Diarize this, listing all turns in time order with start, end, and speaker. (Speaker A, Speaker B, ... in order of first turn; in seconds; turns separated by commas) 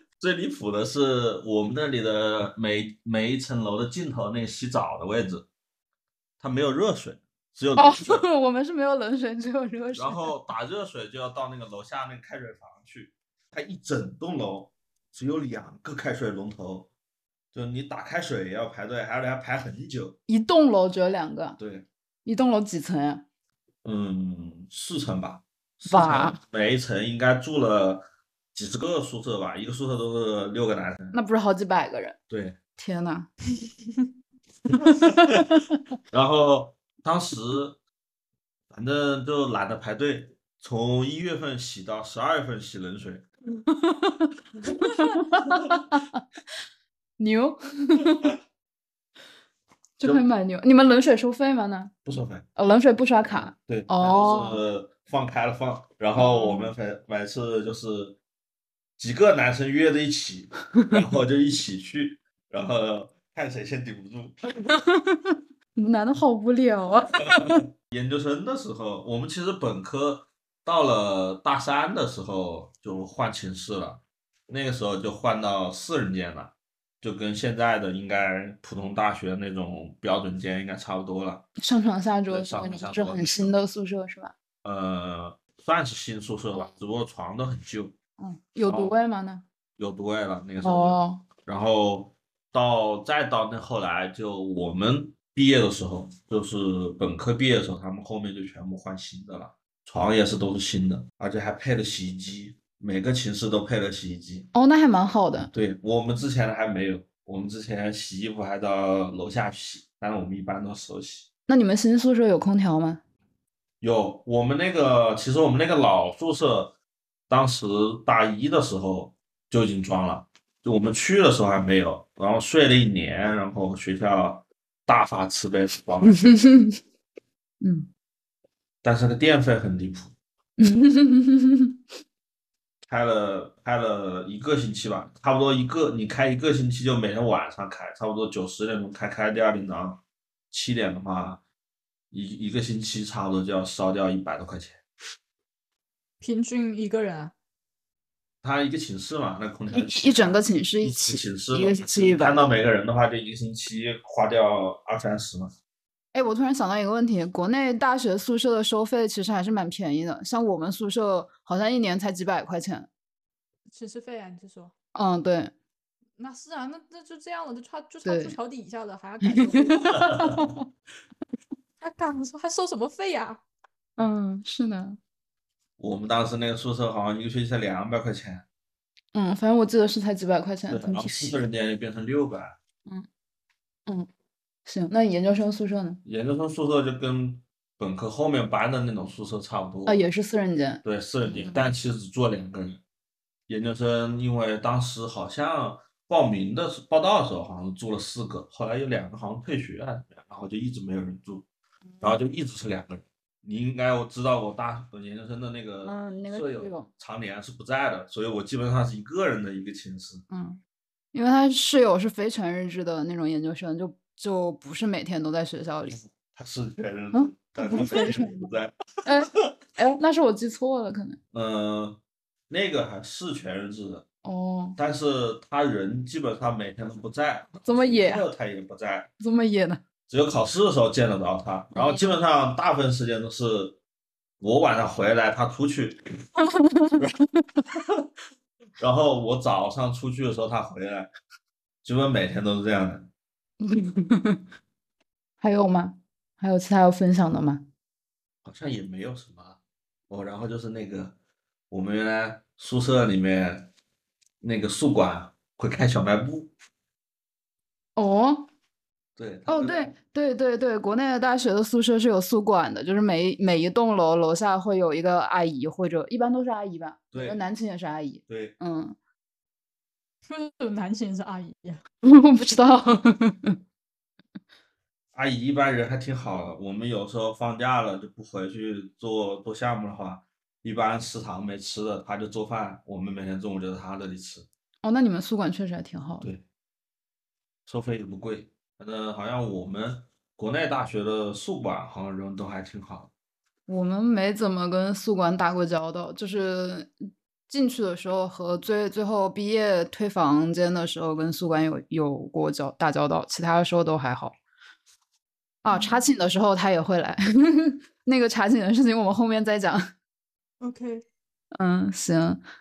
Speaker A: 0.2-5.5, Speaker A: 6.4-8.2, Speaker B: 7.8-10.3, Speaker A: 9.9-16.9, Speaker A: 17.5-20.2, Speaker B: 20.3-21.6, Speaker A: 21.6-21.9, Speaker B: 22.2-23.2, Speaker A: 23.8-31.2, Speaker B: 25.9-26.4, Speaker B: 31.1-32.2, Speaker A: 32.3-32.6, Speaker B: 32.8-33.3, Speaker A: 34.7-35.6, Speaker B: 34.9-35.8, Speaker A: 36.1-37.8, Speaker A: 38.7-43.3, Speaker B: 43.7-46.2, Speaker A: 45.5-45.8, Speaker B: 47.2-48.4, Speaker B: 50.0-51.9, Speaker A: 52.1-52.5, Speaker B: 52.6-54.6, Speaker A: 53.4-58.2, Speaker B: 56.2-56.7, Speaker A: 59.0-64.4, Speaker B: 60.8-61.0, Speaker B: 64.7-67.6, Speaker A: 67.9-81.5, Speaker B: 81.6-84.3, Speaker A: 82.3-83.5, Speaker A: 84.6-87.9, Speaker B: 88.2-89.5, Speaker A: 88.7-88.9, Speaker A: 89.8-104.5, Speaker B: 90.6-91.3, Speaker B: 104.5-105.5, Speaker A: 105.5-111.3, Speaker B: 111.5-113.0, Speaker A: 113.8-116.8, Speaker A: 117.3-126.2, Speaker B: 126.0-126.8, Speaker B: 127.6-127.9, Speaker A: 128.8-130.1, Speaker B: 130.6-131.8, Speaker A: 132.9-141.4, Speaker A: 142.1-144.8, Speaker C: 146.2-147.3, Speaker A: 148.4-155.5, Speaker B: 149.7-152.6, Speaker B: 156.1-162.9, Speaker C: 163.7-164.7, Speaker B: 164.9-165.5, Speaker C: 166.2-170.1, Speaker B: 168.0-168.4, Speaker B: 169.3-170.5, Speaker A: 169.9-170.4, Speaker C: 171.8-173.4, Speaker B: 174.0-175.0, Speaker A: 175.8-178.4, Speaker B: 179.1-181.4, Speaker A: 180.7-182.6, Speaker B: 184.7-186.0, Speaker A: 186.1-190.0, Speaker B: 189.9-191.7, Speaker A: 190.8-192.8, Speaker A: 193.5-201.4, Speaker A: 202.0-210.2, Speaker B: 205.8-206.9, Speaker B: 210.3-210.6, Speaker B: 211.1-216.0, Speaker A: 215.9-219.4, Speaker B: 217.1-218.5, Speaker B: 219.1-221.2, Speaker A: 221.3-222.0, Speaker A: 222.5-224.1, Speaker B: 224.2-224.8, Speaker A: 224.8-229.1, Speaker B: 227.7-228.3, Speaker B: 229.2-229.8, Speaker A: 230.1-233.8, Speaker B: 231.7-232.2, Speaker A: 234.4-236.1, Speaker B: 236.4-237.0, Speaker A: 237.0-238.0, Speaker A: 238.8-241.1, Speaker A: 241.8-243.1, Speaker B: 243.6-244.4, Speaker B: 245.4-247.7, Speaker A: 248.4-249.6, Speaker A: 250.1-251.2, Speaker A: 251.7-253.7, Speaker A: 254.4-256.5, Speaker B: 258.0-258.5, Speaker A: 259.2-259.9, Speaker B: 259.5-269.0, Speaker A: 267.1-267.4, Speaker A: 268.3-268.6, Speaker C: 270.3-271.8, Speaker B: 272.0-273.6, Speaker A: 275.1-284.5, Speaker B: 284.8-286.3, Speaker A: 287.7-293.1, Speaker B: 293.7-296.9, Speaker B: 297.5-304.4, Speaker B: 305.6-309.9, Speaker C: 305.7-306.0, Speaker C: 310.6-311.1, Speaker B: 311.6-312.4